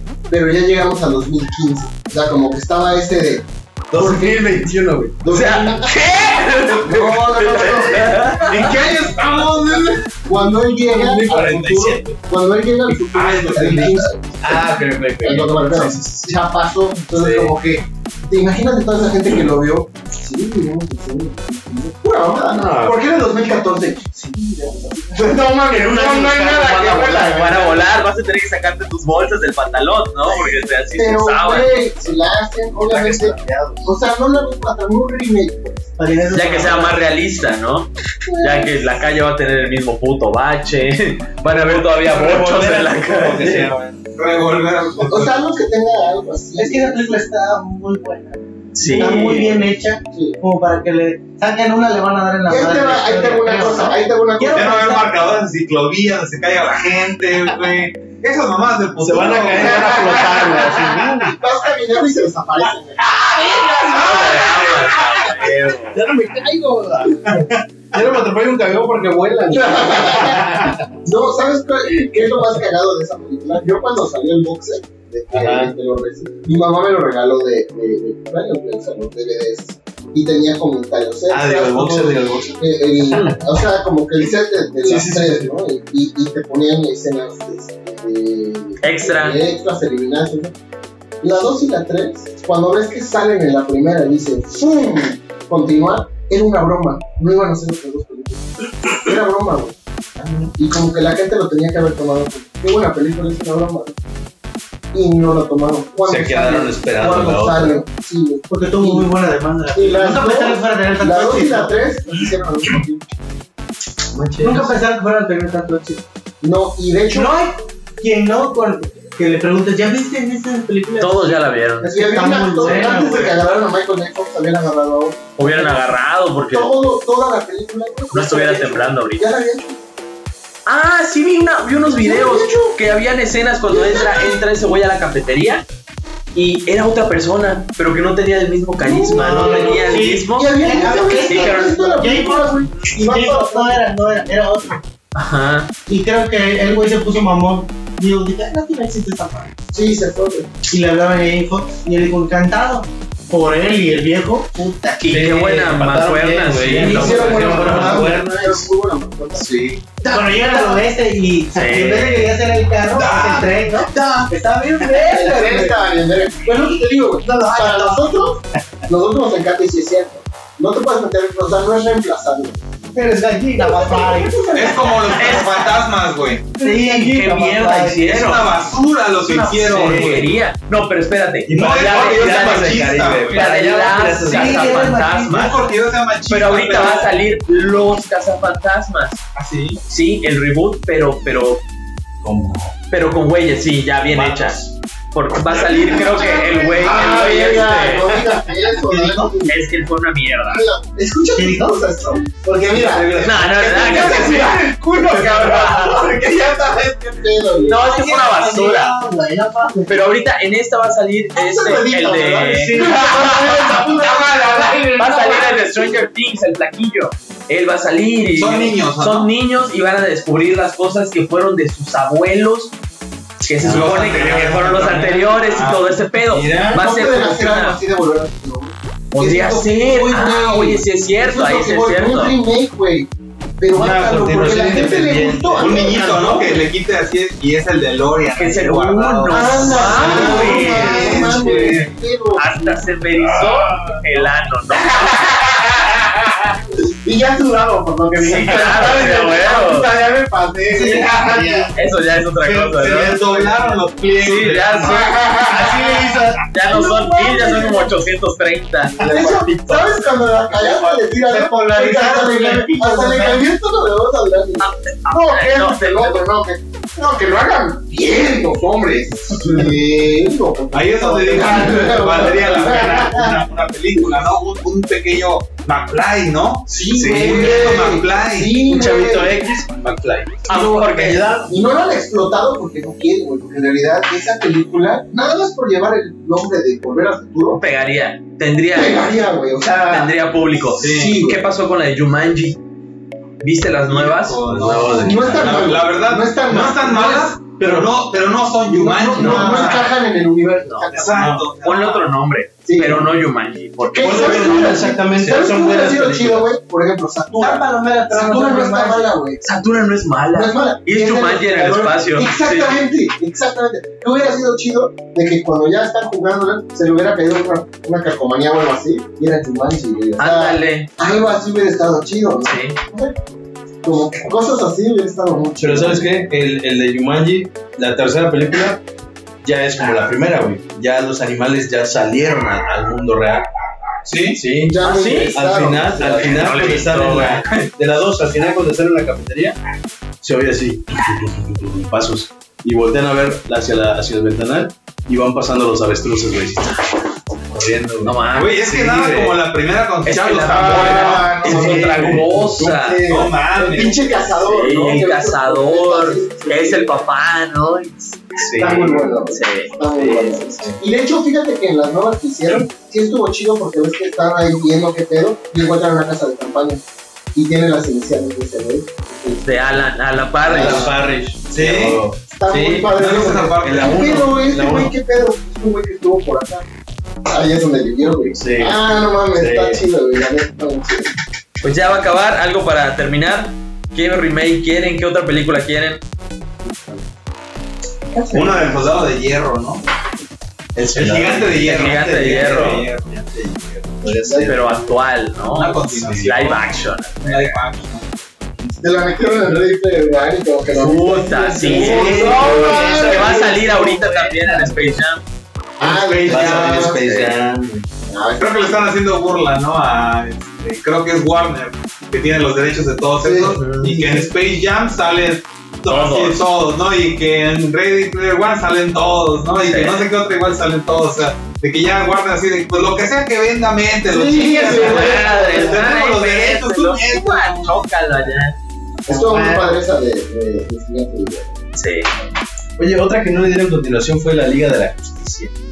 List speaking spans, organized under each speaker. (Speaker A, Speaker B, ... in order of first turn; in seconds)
Speaker A: 0.3-4.7, 5.2-5.9, 6.6-8.7, 10.2-27.8, 30.9-35.9, 38.2-39.0, 45.0-47.2, 48.8-50.4, 52.5-54.8, 59.5-63.1, 69.5-90.5, 91.2-99.8, 100.5-104.0, 104.9-109.1, 109.7-113.0, 116.4-117.4, 121.8-125.8, 126.4-129.8, 132.0-132.8, 133.7-134.4, 138.8-143.8, 149.7-150.5, 156.8-160.8, 165.1-172.6, 173.6-174.8, 195.8-199.6, 200.5-207.9, 211.3-216.0, 226.7-233.1, 233.6-236.7, 239.3-242.8, 244.7-246.2, 247.1-251.5, 254.8-258.0, 259.0-273.4, 276.7-279.4, 281.5-287.6, 288.7-291.4, 295.0-297.3, 298.6-301.4, 302.6-303.1, 303.9-309.4, 310.3-323.1, 323.8-326.1, 334.6-336.4, 350.6-357.1, 358.6-366.8, 367.3-369.7, 370.4-370.9, 372.3-376.7, 377.3-381.1, 394.2-394.9, 398.8-403.6, 405.8-407.0, 408.1-409.0, 413.2-414.3, 424.1-425.9, 429.1-431.6
Speaker B: 3.9-5.2, 10.8-12.2, 13.6-16.4, 22.5-22.9, 25.7-27.5, 32.8-33.9, 41.4-44.0, 59.0-61.3, 63.5-70.9, 75.3-75.7, 81.3-83.4, 84.8-85.5, 106.0-107.8, 114.1-114.6, 122.6-122.9, 155.1-158.7, 159.3-159.8, 179.5-180.2, 181.4-185.0, 192.2-192.8, 194.1-194.7, 202.7-203.8, 223.6-224.1, 226.3-226.8, 233.7-235.8, 276.9-277.4, 278.6-281.6, 294.4-295.7, 301.1-301.4, 304.0-306.5, 325.6-328.8, 329.4-333.5, 334.3-339.6, 340.2-349.4, 351.4-352.4, 358.4-359.2, 359.9-360.8, 370.4-372.9, 373.6-374.9, 378.1-379.8, 390.7-394.9, 395.9-396.3, 401.6-404.6, 405.8-407.9, 432.8-435.5
Speaker C: 5.3-8.7, 17.1-17.5, 27.2-31.7, 36.3-43.6, 48.7-49.5, 63.1-66.0, 83.1-83.4, 88.8-89.4, 121.0-121.9, 122.6-123.3, 125.4-126.7, 128.1-129.3, 130.7-135.6, 136.3-140.6, 141.2-141.8, 145.1-145.7, 155.0-157.9, 161.5-162.3, 175.1-175.7, 176.6-178.5, 179.7-185.8, 186.3-189.2, 189.9-191.6, 192.9-198.2, 199.4-200.6, 203.2-206.1, 207.6-208.9, 209.9-214.0, 214.9-222.7, 223.4-227.8, 229.1-232.4, 238.3-241.4, 242.3-245.3, 248.2-249.9, 251.7-253.2, 254.2-255.8, 256.5-260.0, 264.6-266.2, 280.5-281.3, 287.6-292.6, 293.4-294.7, 300.6-304.9, 309.4-312.8, 320.2-320.9, 322.4-322.8, 334.8-335.4, 336.0-337.7, 348.0-348.7, 350.0-353.1, 354.4-359.7, 369.4-370.9, 381.6-386.0, 391.6-392.9, 394.4-397.6, 400.7-405.2, 406.2-407.3, 415.9-416.4, 419.6-420.1, 424.5-428.6, 431.8-432.1
Speaker D: 8.4-10.1, 13.1-14.0, 44.1-45.3, 54.5-60.1, 162.9-164.3, 174.5-176.5, 178.0-180.3, 181.5-183.4, 185.3-187.1, 189.3-189.8, 208.0-208.4, 218.3-219.3, 223.6-225.9, 235.6-241.9, 243.3-244.0, 250.8-251.7, 252.4-255.0, 260.6-260.9, 270.7-278.6, 290.8-291.2, 293.9-299.9, 300.9-302.1, 334.0-334.4, 348.3-354.3, 371.5-372.1, 372.9-374.3, 388.3-389.8, 390.9-393.1, 395.4-398.8, 408.4-427.9
Speaker E: 36.0-37.0, 46.5-55.2, 108.5-111.8, 114.4-116.0, 117.1-123.4, 139.1-144.8, 145.9-149.5, 150.7-155.2, 156.8-158.2, 160.0-165.8, 166.4-168.3, 172.9-175.5, 176.6-178.0, 179.2-179.9, 184.2-185.5, 198.6-199.3, 201.3-203.1, 208.0-210.1, 212.6-213.8, 240.1-240.5, 248.1-249.4, 250.7-251.7, 253.2-253.8, 255.4-256.4, 260.6-263.4, 297.6-297.9, 299.1-299.9, 307.4-309.1, 429.1-429.7